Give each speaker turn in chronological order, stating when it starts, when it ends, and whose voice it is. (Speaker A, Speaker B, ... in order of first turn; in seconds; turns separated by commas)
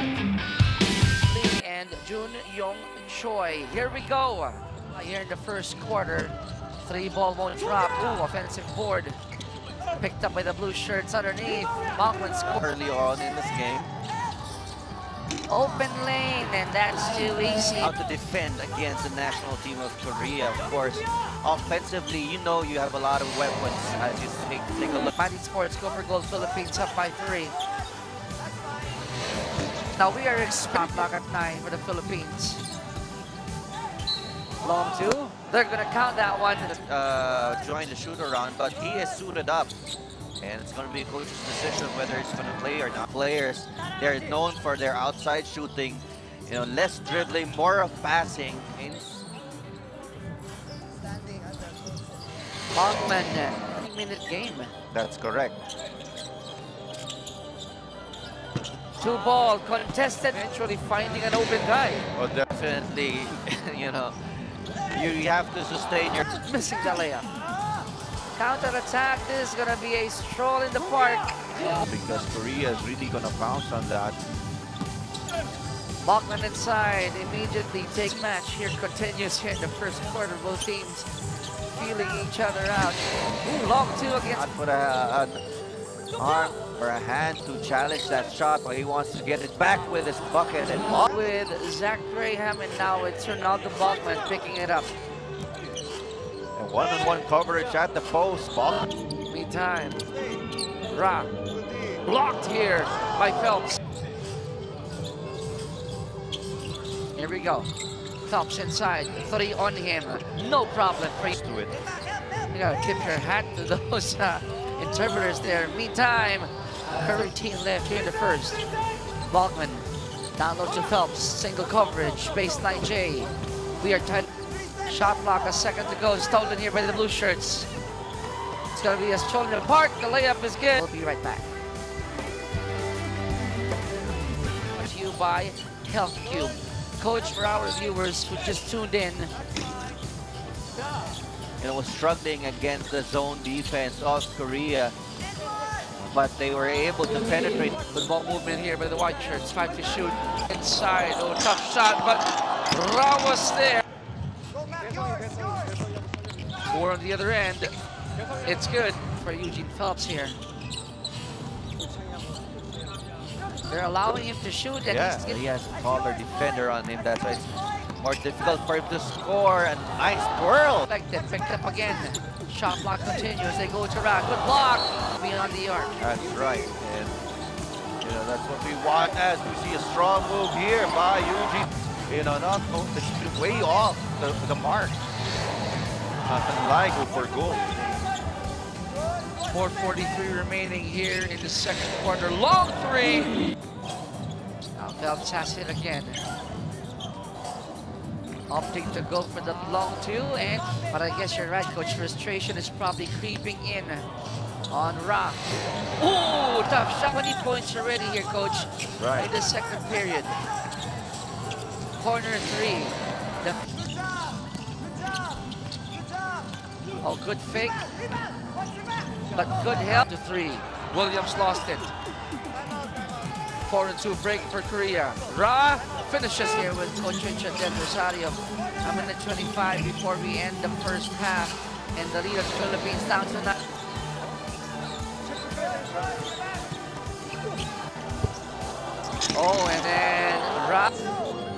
Speaker A: 1.2-9.2, Speaker A: 10.0-12.6, Speaker B: 12.5-13.9, Speaker A: 15.5-17.9, Speaker B: 17.8-25.1, Speaker A: 25.1-27.5, Speaker A: 29.9-32.6, Speaker B: 30.7-31.1, Speaker A: 34.6-36.7, Speaker B: 36.7-39.7, Speaker B: 40.4-49.2, Speaker A: 52.7-54.7, Speaker B: 54.9-55.6, Speaker A: 59.0-62.1, Speaker B: 62.1-64.2, Speaker B: 64.9-66.3, Speaker A: 66.4-67.3, Speaker A: 68.3-71.5, Speaker B: 71.8-74.2, Speaker A: 76.0-81.1, Speaker A: 81.7-84.4, Speaker B: 84.3-85.4, Speaker B: 86.2-91.1, Speaker A: 90.9-94.9, Speaker B: 96.5-98.9, Speaker A: 99.3-100.0, Speaker A: 100.9-101.3, Speaker A: 102.0-103.8, Speaker A: 107.2-107.7, Speaker A: 108.2-111.4, Speaker B: 111.3-111.8, Speaker A: 112.5-118.6, Speaker A: 119.3-124.3, Speaker A: 124.8-127.7, Speaker A: 128.7-131.4, Speaker A: 134.8-139.3, Speaker B: 141.6-144.9, Speaker B: 146.1-147.8, Speaker A: 147.9-153.8, Speaker A: 156.7-157.7, Speaker A: 158.4-160.4, Speaker A: 163.7-165.4, Speaker B: 164.9-170.9, Speaker A: 170.9-175.9, Speaker B: 176.0-177.2, Speaker B: 178.0-185.0, Speaker B: 186.2-187.7, Speaker A: 189.5-193.4, Speaker A: 194.8-196.2, Speaker A: 198.5-204.1, Speaker A: 204.7-205.4, Speaker A: 206.0-210.4, Speaker B: 209.0-209.3, Speaker A: 212.0-213.6, Speaker A: 217.0-217.8, Speaker A: 219.3-221.9, Speaker A: 223.6-233.6, Speaker A: 239.3-240.9